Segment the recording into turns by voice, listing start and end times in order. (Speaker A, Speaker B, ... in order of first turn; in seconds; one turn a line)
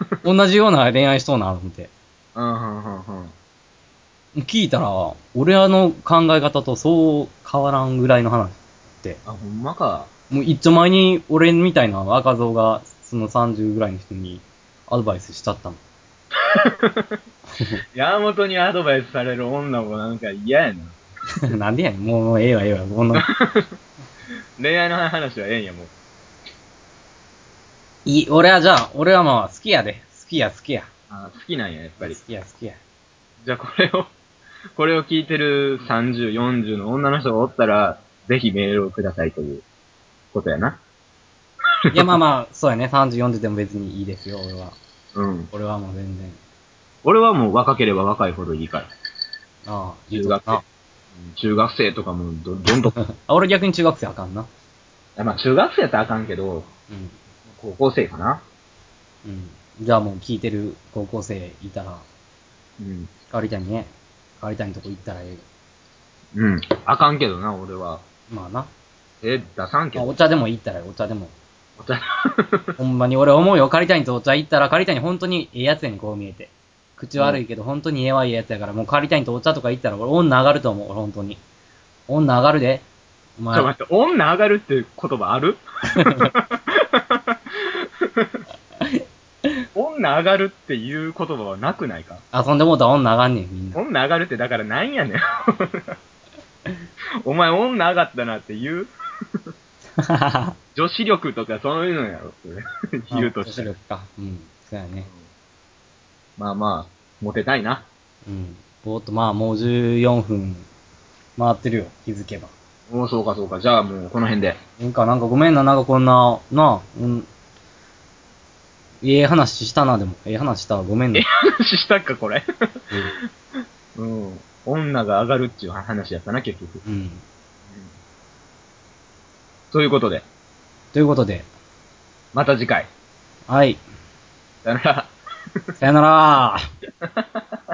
Speaker A: 0.2-1.9
Speaker B: 2.3-3.3
Speaker A: 4.4-9.2
Speaker B: 9.2-10.1
Speaker A: 10.3-15.8
Speaker B: 16.6-17.1
Speaker B: 17.9-21.0
Speaker A: 21.4-23.2
Speaker B: 23.1-23.8
Speaker B: 24.6-25.9
Speaker A: 28.1-30.9
Speaker B: 31.1-32.2
Speaker A: 32.0-32.8
Speaker B: 33.4-34.1
Speaker B: 34.8-39.6
Speaker B: 40.3-40.8
Speaker A: 41.9-44.8
Speaker B: 45.1-45.5
Speaker A: 45.5-46.4
Speaker B: 47.0-48.9
Speaker A: 49.6-50.6
Speaker B: 50.1-50.6
Speaker B: 51.2-53.0
Speaker A: 53.0-54.5
Speaker B: 55.2-56.7
Speaker A: 56.9-57.1
Speaker B: 57.5-58.4
Speaker A: 59.2-62.0
Speaker B: 62.8-63.1
Speaker A: 63.3-65.4
Speaker B: 66.3-68.0
Speaker A: 68.3-68.7
Speaker B: 69.2-70.1
Speaker A: 69.9-71.3
Speaker B: 71.8-72.7
Speaker A: 72.8-81.4
Speaker B: 77.2-77.4
Speaker A: 82.1-82.8
Speaker A: 83.4-83.7
Speaker B: 83.5-87.3
Speaker B: 89.7-92.2
Speaker A: 92.3-93.8
Speaker B: 93.7-96.0
Speaker B: 97.2-98.9
Speaker A: 100.0-100.5
Speaker B: 100.7-103.7
Speaker A: 103.1-105.1
Speaker B: 106.4-107.9
Speaker A: 108.2-110.7
Speaker A: 111.4-112.5
Speaker B: 112.9-114.6
Speaker A: 114.8-117.3
Speaker A: 119.0-121.2
Speaker B: 121.1-122.4
Speaker B: 124.0-126.8
Speaker A: 126.8-127.2
Speaker B: 129.7-130.2
Speaker A: 130.9-131.4
Speaker B: 132.3-132.9
Speaker A: 133.5-133.8
Speaker B: 134.6-135.1
Speaker A: 135.8-136.6